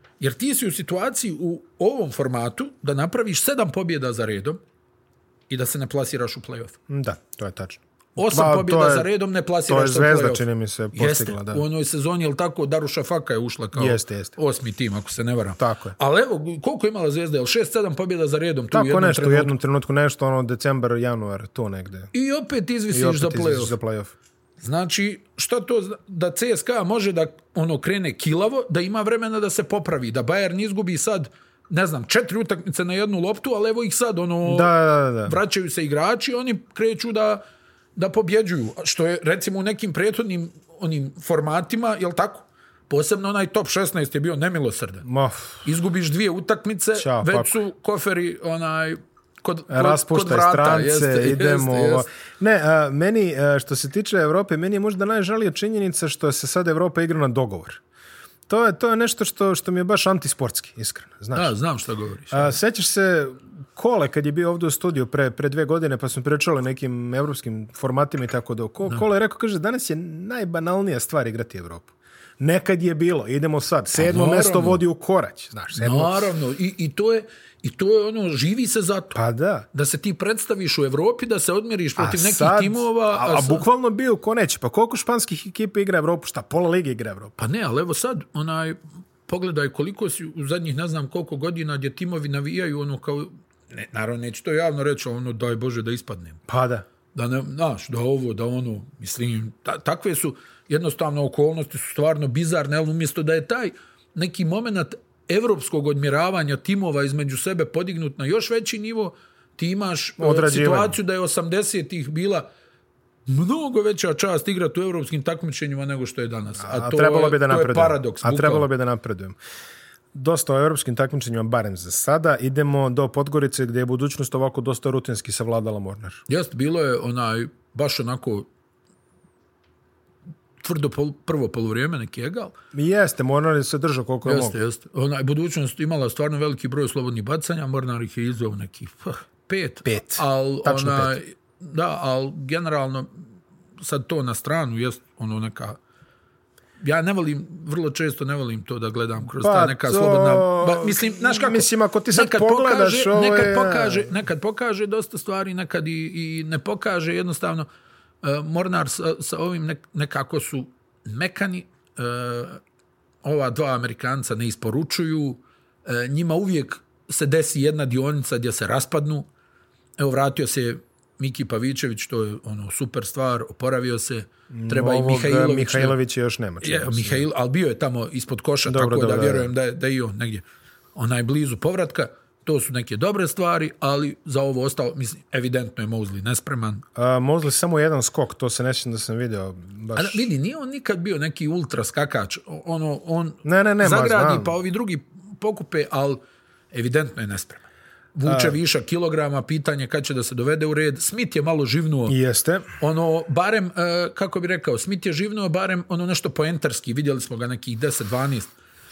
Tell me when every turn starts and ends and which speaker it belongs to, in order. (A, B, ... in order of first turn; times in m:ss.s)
0:00.2-0:04.6 A
0:05.5-0:06.8 A
0:06.9-0:09.1 B
0:08.2-0:19.5 A
0:09.6-0:11.6 B
0:13.7-0:14.3 B
0:15.6-0:15.9 B
0:18.7-0:22.1 B
0:22.1-0:23.8 A
0:22.9-0:24.1 B
0:24.6-0:34.7 A
0:34.4-0:35.4 B
0:35.2-0:37.4 A
0:38.0-0:45.0 A
0:45.0-0:45.6 B
0:45.6-0:52.0 A
0:46.9-0:47.6 B
0:49.7-0:57.8 B
0:58.5-1:01.5 B
1:01.3-1:02.5 A
1:02.3-1:16.3 B
1:14.0-1:14.8 A
1:15.8-1:19.2 A
1:19.1-1:19.7 B
1:19.7-1:23.6 A
1:22.0-1:27.3 B
1:27.4-1:36.4 A
1:36.5-1:36.8 B
1:37.1-1:52.5 A
1:50.2-1:51.0 B
1:53.3-1:58.7 A
1:56.6-1:59.4 B
2:00.1-2:06.2 B
2:06.3-2:08.5 A
2:10.6-2:12.5 A
2:12.7-2:14.5 B
2:14.2-2:23.1 A
2:19.8-2:21.2 B
2:23.8-2:25.8 A
2:26.8-2:37.7 A
2:29.3-2:34.1 B
2:38.2-2:42.6 A
2:43.2-2:49.3 A
2:50.0-2:55.9 A
2:54.5-2:57.2 B
2:56.6-3:00.4 A
2:58.6-2:59.5 B
3:01.0-3:06.8 A
3:07.0-3:10.3 B
3:09.9-3:16.2 A
3:13.4-3:14.5 B
3:16.7-3:22.2 A
3:18.2-3:18.6 B
3:22.1-3:22.6 B
3:22.8-3:28.5 A